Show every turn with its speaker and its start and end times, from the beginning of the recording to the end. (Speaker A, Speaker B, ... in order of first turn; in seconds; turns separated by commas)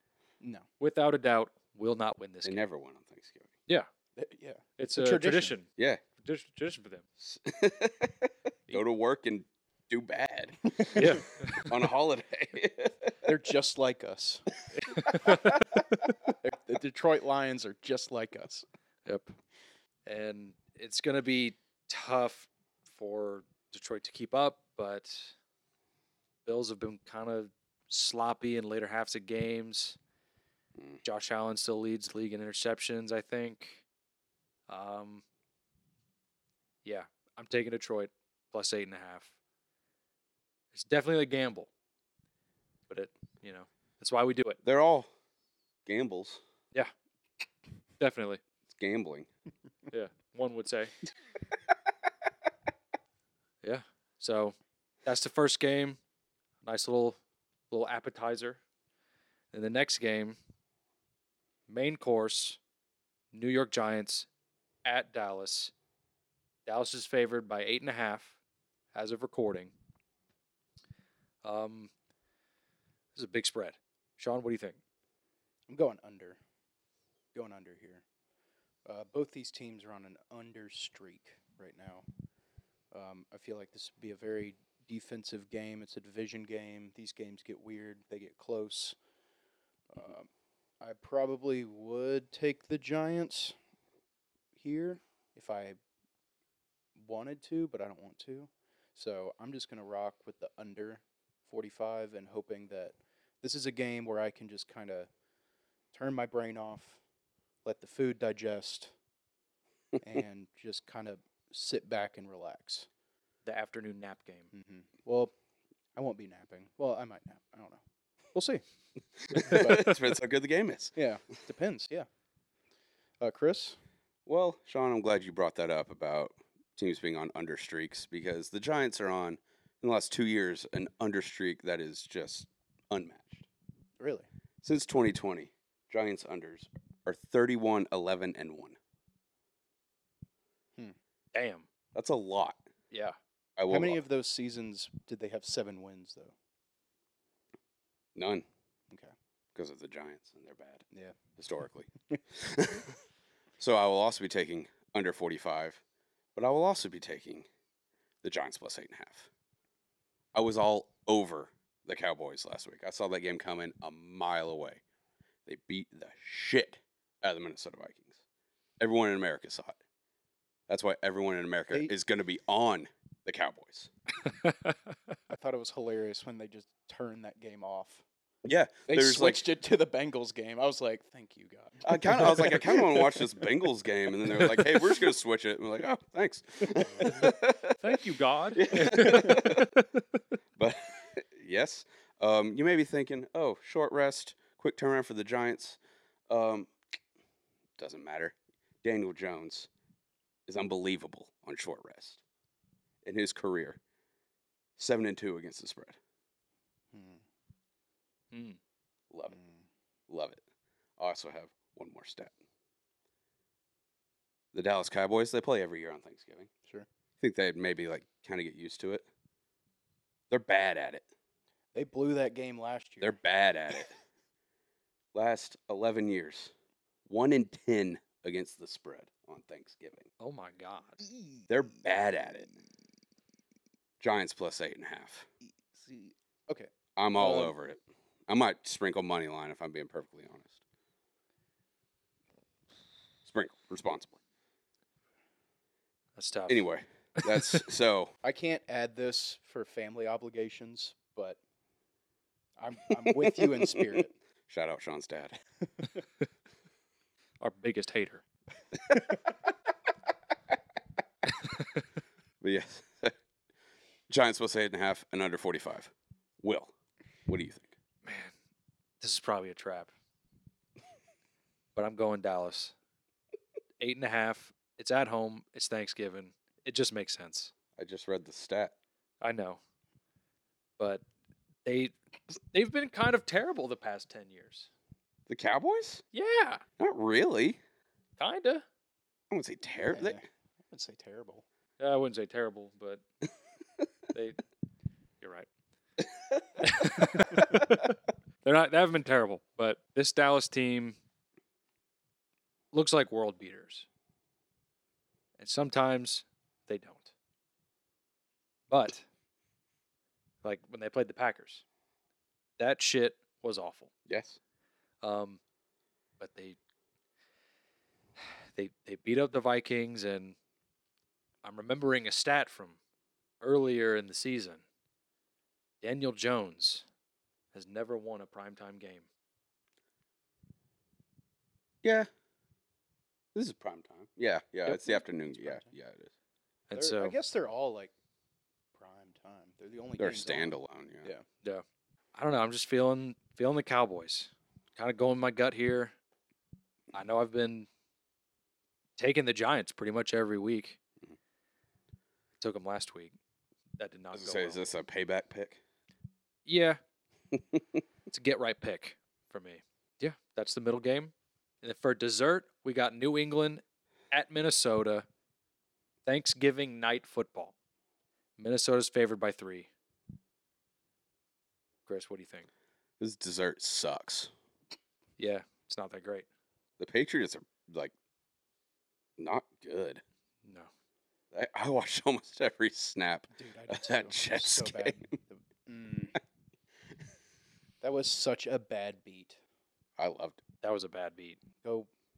Speaker A: 0.4-0.7, Speaker B: 0.8-2.6, Speaker C: 2.4-3.5, Speaker A: 4.2-5.6, Speaker B: 4.8-7.0, Speaker C: 7.2-13.3, Speaker B: 10.9-11.8, Speaker A: 13.2-14.5, Speaker B: 14.8-16.0, Speaker C: 15.2-15.7, Speaker A: 16.4-18.6, Speaker B: 19.0-19.3, Speaker B: 20.1-25.3, Speaker B: 26.4-30.0, Speaker C: 30.8-31.0, Speaker B: 31.0-33.8, Speaker B: 34.7-35.2, Speaker B: 36.8-39.3, Speaker B: 40.7-41.7, Speaker B: 42.9-44.6, Speaker C: 44.6-45.1, Speaker C: 45.9-46.4, Speaker B: 48.0-48.4, Speaker C: 48.7-49.3, Speaker B: 49.9-50.9, Speaker B: 53.6-56.0, Speaker B: 56.6-57.2, Speaker B: 57.7-58.6, Speaker B: 59.5-60.4, Speaker B: 61.7-62.6, Speaker B: 63.3-64.3, Speaker B: 64.8-65.7, Speaker B: 66.7-68.3, Speaker B: 68.9-69.7, Speaker B: 71.4-71.9, Speaker B: 73.1-74.8, Speaker A: 75.7-76.4, Speaker A: 77.3-78.0, Speaker A: 78.8-82.0, Speaker A: 82.9-89.0, Speaker A: 89.9-90.3, Speaker A: 90.8-93.5, Speaker A: 94.5-95.8, Speaker A: 97.0-105.1, Speaker A: 105.9-107.0, Speaker A: 107.6-108.9, Speaker A: 110.0-112.9, Speaker B: 113.4-114.5, Speaker A: 114.5-115.3, Speaker A: 116.0-117.8, Speaker A: 118.3-118.6, Speaker C: 119.3-120.9, Speaker A: 119.5-119.9, Speaker A: 120.9-122.0, Speaker A: 123.2-123.8, Speaker C: 124.2-133.4, Speaker A: 134.0-134.3, Speaker C: 134.6-138.8, Speaker B: 141.3-141.7, Speaker C: 141.9-142.6, Speaker B: 142.9-143.2, Speaker C: 143.6-144.0, Speaker A: 143.7-146.3, Speaker C: 148.2-148.4, Speaker C: 149.5-150.8, Speaker A: 150.9-151.2, Speaker C: 151.4-152.9, Speaker C: 153.6-155.8, Speaker C: 156.3-157.4, Speaker C: 158.2-159.3, Speaker C: 160.3-164.8, Speaker C: 165.4-168.2, Speaker C: 168.8-169.8, Speaker C: 170.7-173.9, Speaker B: 174.4-174.7, Speaker A: 175.3-178.0, Speaker C: 178.4-179.4, Speaker A: 178.9-183.1, Speaker C: 181.8-188.0, Speaker B: 187.8-189.9, Speaker C: 188.5-189.7, Speaker C: 190.6-195.8, Speaker C: 196.3-196.7, Speaker C: 197.8-199.7, Speaker C: 200.5-202.2, Speaker C: 203.0-203.8, Speaker C: 204.8-206.0, Speaker A: 206.9-207.2, Speaker B: 208.3-208.6, Speaker C: 209.1-209.4, Speaker A: 209.3-209.6, Speaker C: 210.1-210.4, Speaker C: 211.0-212.3, Speaker C: 214.5-216.5, Speaker C: 217.2-219.1, Speaker C: 220.3-221.1, Speaker A: 221.7-223.2, Speaker C: 223.0-223.9, Speaker C: 225.1-226.5, Speaker C: 227.1-230.1, Speaker B: 230.2-231.0, Speaker A: 231.1-231.4, Speaker C: 231.5-232.6, Speaker C: 234.0-235.3, Speaker A: 235.7-237.5, Speaker C: 236.9-240.6, Speaker C: 243.2-244.2, Speaker B: 246.2-246.6, Speaker C: 246.5-248.1, Speaker A: 248.2-251.4, Speaker A: 252.6-254.1, Speaker C: 253.0-255.3, Speaker B: 257.4-258.2, Speaker C: 262.4-263.1, Speaker C: 264.1-266.7, Speaker C: 267.3-267.7, Speaker B: 268.0-268.3, Speaker B: 269.0-269.9, Speaker B: 271.7-272.7, Speaker B: 273.8-277.5, Speaker C: 277.8-278.7, Speaker B: 279.2-279.6, Speaker B: 280.8-281.0, Speaker B: 281.6-281.9, Speaker B: 282.5-284.7, Speaker C: 285.3-286.0, Speaker B: 286.1-286.6, Speaker C: 286.8-287.6, Speaker B: 288.2-288.6, Speaker C: 289.3-290.2, Speaker A: 289.9-291.4, Speaker B: 291.8-293.0, Speaker B: 294.1-294.4, Speaker B: 295.2-295.5, Speaker B: 296.6-300.9, Speaker B: 302.7-303.9, Speaker B: 305.4-307.1, Speaker B: 308.7-309.1, Speaker B: 310.4-311.6, Speaker B: 312.6-313.9, Speaker C: 314.1-314.4, Speaker B: 315.0-315.4, Speaker B: 316.2-316.6, Speaker B: 318.5-320.4, Speaker B: 321.4-322.8, Speaker B: 323.4-324.6, Speaker B: 325.8-326.9, Speaker B: 327.5-329.1, Speaker C: 331.8-332.1, Speaker C: 333.3-336.1, Speaker B: 334.6-335.0, Speaker A: 335.3-335.7, Speaker B: 336.7-337.1, Speaker A: 336.7-337.9, Speaker A: 338.7-341.2, Speaker C: 340.0-341.1, Speaker B: 342.1-345.9, Speaker B: 346.9-347.7, Speaker B: 349.0-350.8, Speaker B: 352.4-353.1, Speaker B: 353.8-354.7, Speaker C: 354.1-355.6, Speaker B: 356.4-356.8, Speaker B: 358.1-365.1, Speaker B: 366.1-367.5, Speaker B: 368.4-369.7, Speaker B: 371.9-372.5, Speaker C: 373.0-374.3, Speaker B: 375.2-376.2, Speaker C: 376.8-377.9, Speaker C: 379.2-380.0, Speaker B: 380.4-380.7, Speaker C: 381.3-385.1, Speaker A: 383.3-386.2, Speaker A: 387.8-389.4, Speaker C: 390.0-390.4, Speaker B: 390.6-391.4, Speaker A: 391.6-391.9